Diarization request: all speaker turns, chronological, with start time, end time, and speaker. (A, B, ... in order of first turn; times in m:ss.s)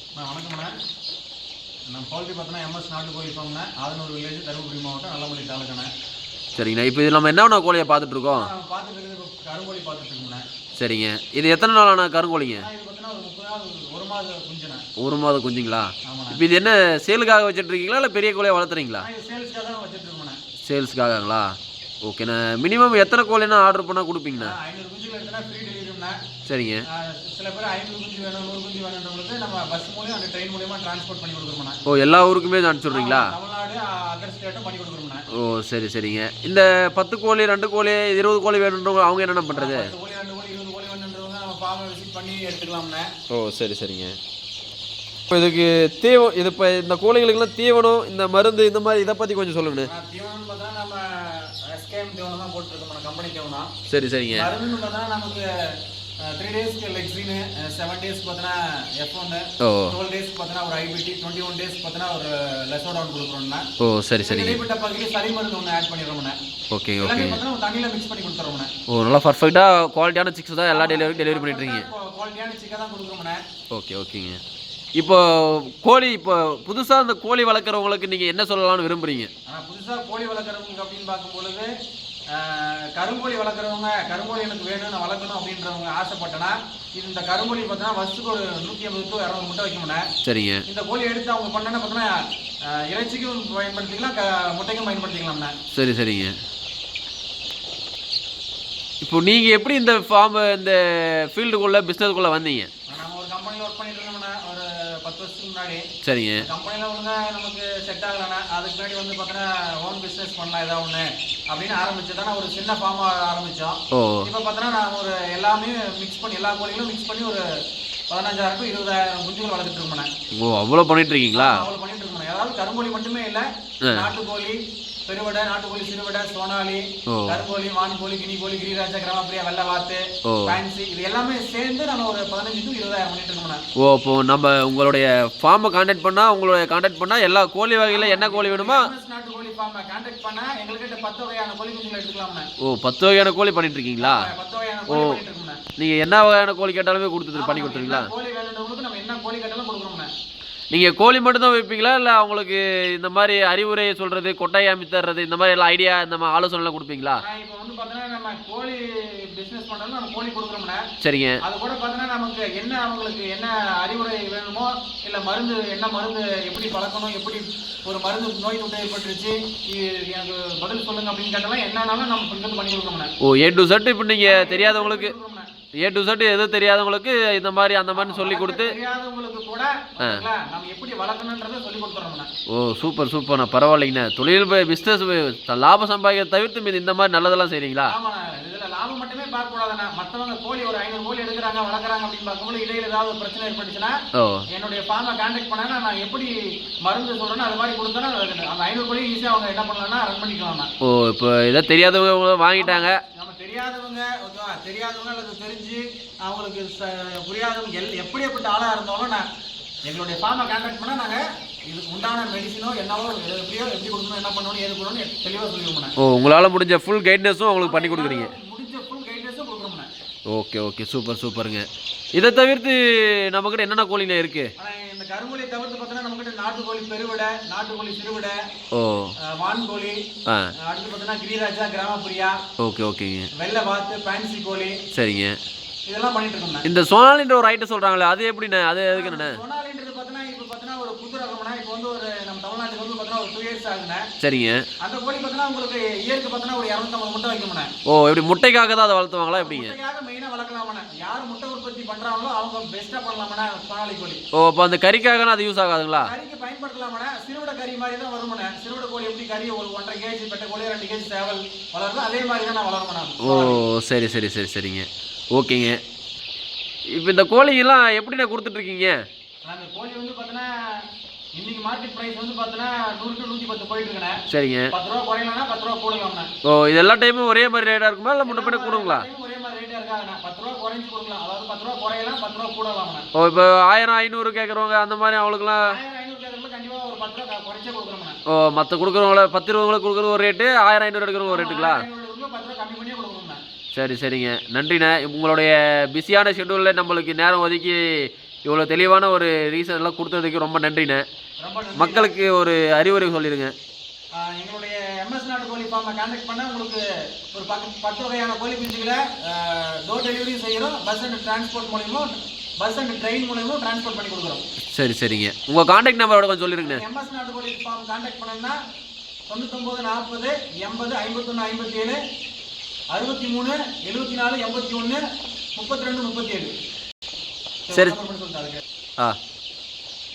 0:00.2-0:00.7 A
0:01.9-0:05.9 A
0:06.6-0:08.5 B
0:08.4-0:10.4 A
0:10.8-0:12.7 B
0:12.6-0:14.8 A
0:15.0-0:19.1 B
0:16.1-0:16.4 A
0:19.0-0:20.4 A
0:20.7-0:21.5 B
0:22.0-0:24.5 B
0:24.4-0:26.2 A
0:26.5-0:26.8 B
0:26.9-0:31.8 A
0:31.9-0:33.3 B
0:32.9-0:35.2 A
0:35.3-0:39.9 B
0:39.5-0:43.1 A
0:43.3-0:44.2 B
0:45.3-0:49.9 B
0:49.8-0:53.7 A
0:53.9-0:54.5 B
0:54.3-0:55.5 A
0:56.3-1:03.6 A
0:59.6-0:59.9 B
1:03.8-1:04.6 B
1:04.2-1:06.4 A
1:06.7-1:07.4 B
1:07.0-1:08.7 A
1:08.9-1:11.9 B
1:10.7-1:13.4 A
1:13.7-1:14.4 B
1:15.0-1:19.3 B
1:19.5-1:21.7 A
1:22.3-1:30.1 A
1:30.2-1:30.6 B
1:30.7-1:32.2 A
1:32.7-1:35.6 A
1:35.7-1:36.3 B
1:39.0-1:42.7 B
1:42.9-1:45.8 A
1:46.0-1:46.5 B
1:46.4-1:57.4 A
1:53.9-1:54.3 B
1:58.1-2:00.1 A
2:00.4-2:01.6 B
2:01.4-2:13.6 A
2:07.1-2:07.4 B
2:10.3-2:10.6 B
2:13.8-2:18.9 B
2:17.9-2:22.5 A
2:22.6-2:24.3 B
2:24.0-2:25.6 A
2:24.9-2:25.2 B
2:25.8-2:28.1 B
2:27.4-2:30.1 A
2:30.7-2:37.2 B
2:37.2-2:40.8 A
2:41.0-2:41.4 B
2:41.4-2:53.1 A
2:53.2-2:55.1 B
2:54.2-2:55.5 A
2:55.8-2:58.7 B
2:57.9-3:02.3 A
3:02.5-3:07.9 B
3:07.9-3:14.0 A
3:14.2-3:14.4 B
3:14.5-3:16.3 A
3:16.8-3:20.7 A
3:20.8-3:23.0 B
3:22.6-3:29.2 A
3:29.9-3:35.9 A
3:36.0-3:38.3 B
3:37.6-3:39.9 A
3:40.3-3:41.6 B
3:42.2-3:44.5 B
3:44.6-3:48.4 A
3:48.7-3:49.1 B
3:49.3-3:50.0 A
3:50.6-3:52.4 A
3:52.6-3:53.3 B
3:53.4-3:54.8 A
3:54.9-3:55.3 B
3:55.9-3:56.7 A
3:56.6-3:59.4 B
3:58.9-4:04.1 A
4:04.2-4:04.6 B
4:04.8-4:07.7 A
4:07.9-4:09.7 B
4:09.4-4:14.2 A
4:14.4-4:16.1 B
4:16.0-4:23.6 A
4:23.2-4:25.8 B
4:27.0-4:29.0 B
4:29.5-4:30.8 A
4:31.4-4:34.2 A
4:34.3-4:34.7 B
4:34.7-4:36.3 A
4:36.4-4:39.1 B
4:38.2-4:43.1 A
4:43.2-4:45.7 B
4:45.6-4:48.2 A
4:48.3-4:51.8 B
4:51.3-4:53.4 A
4:53.7-4:57.8 B
4:58.5-5:01.0 B
5:01.4-5:02.1 A
5:01.8-5:03.5 B
5:04.2-5:06.8 A
5:07.3-5:14.4 A
5:14.8-5:16.8 B
5:16.6-5:18.6 A
5:19.3-5:22.0 A
5:22.9-5:25.0 A
5:25.6-5:26.5 A
5:27.7-5:28.6 A